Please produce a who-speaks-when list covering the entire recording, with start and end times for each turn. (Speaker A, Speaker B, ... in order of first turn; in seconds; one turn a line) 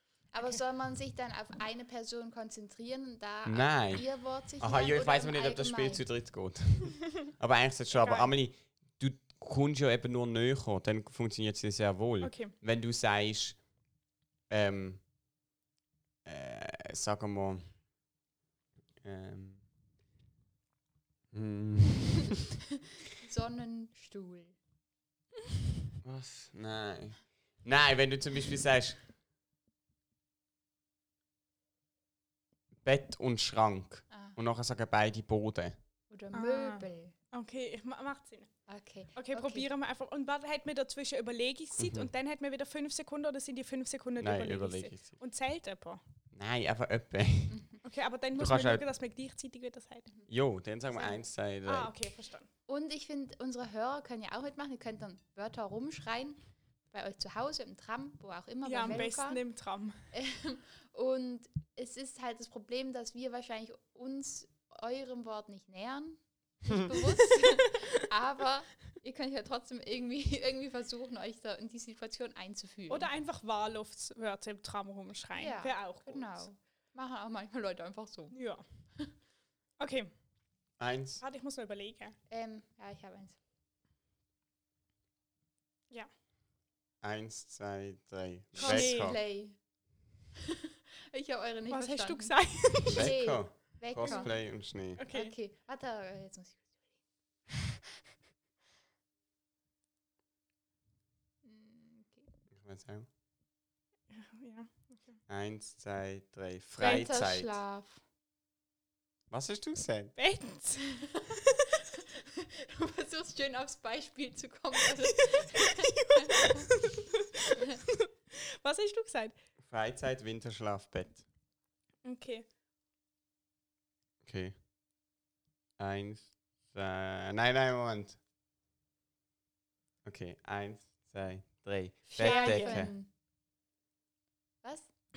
Speaker A: 0.3-6.0
Speaker B: 3.4-13.6
Speaker C: 7.9-8.3
Speaker C: 12.2-12.5
Speaker B: 14.5-15.0
Speaker B: 16.2-17.8
Speaker B: 19.0-19.7
Speaker B: 21.3-22.4
Speaker A: 23.2-24.6
Speaker B: 26.0-29.1
Speaker B: 32.8-35.8
Speaker A: 34.1-34.4
Speaker A: 36.1-37.1
Speaker C: 36.3-38.5
Speaker A: 38.7-39.7
Speaker C: 39.1-46.0
Speaker B: 41.8-42.1
Speaker B: 44.2-45.1
Speaker B: 46.3-47.6
Speaker A: 47.5-47.8
Speaker C: 47.8-50.1
Speaker B: 48.4-48.8
Speaker B: 50.3-51.9
Speaker C: 50.9-52.5
Speaker A: 52.7-56.4
Speaker A: 56.9-59.4
Speaker C: 58.6-60.0
Speaker A: 60.1-73.1
Speaker C: 72.9-76.5
Speaker A: 75.3-79.1
Speaker C: 78.3-78.6
Speaker C: 79.8-80.1
Speaker B: 80.8-81.2
Speaker C: 81.2-82.2
Speaker A: 82.3-83.4
Speaker B: 87.0-89.2
Speaker C: 88.6-89.2
Speaker A: 88.6-89.6
Speaker A: 91.1-96.8
Speaker C: 91.7-93.2
Speaker B: 92.8-95.0
Speaker C: 94.0-94.4
Speaker C: 95.0-95.3
Speaker A: 101.4-102.3
Speaker B: 102.5-103.1
Speaker C: 104.1-105.2
Speaker B: 105.3-107.6
Speaker A: 106.8-108.0
Speaker B: 109.3-110.2
Speaker C: 110.2-111.1
Speaker A: 112.4-116.7
Speaker C: 115.1-119.3
Speaker B: 119.7-121.2
Speaker C: 122.0-122.5
Speaker B: 124.2-124.6
Speaker B: 125.8-128.2
Speaker B: 130.0-132.9
Speaker A: 132.1-133.1
Speaker C: 132.2-132.9
Speaker A: 134.6-134.9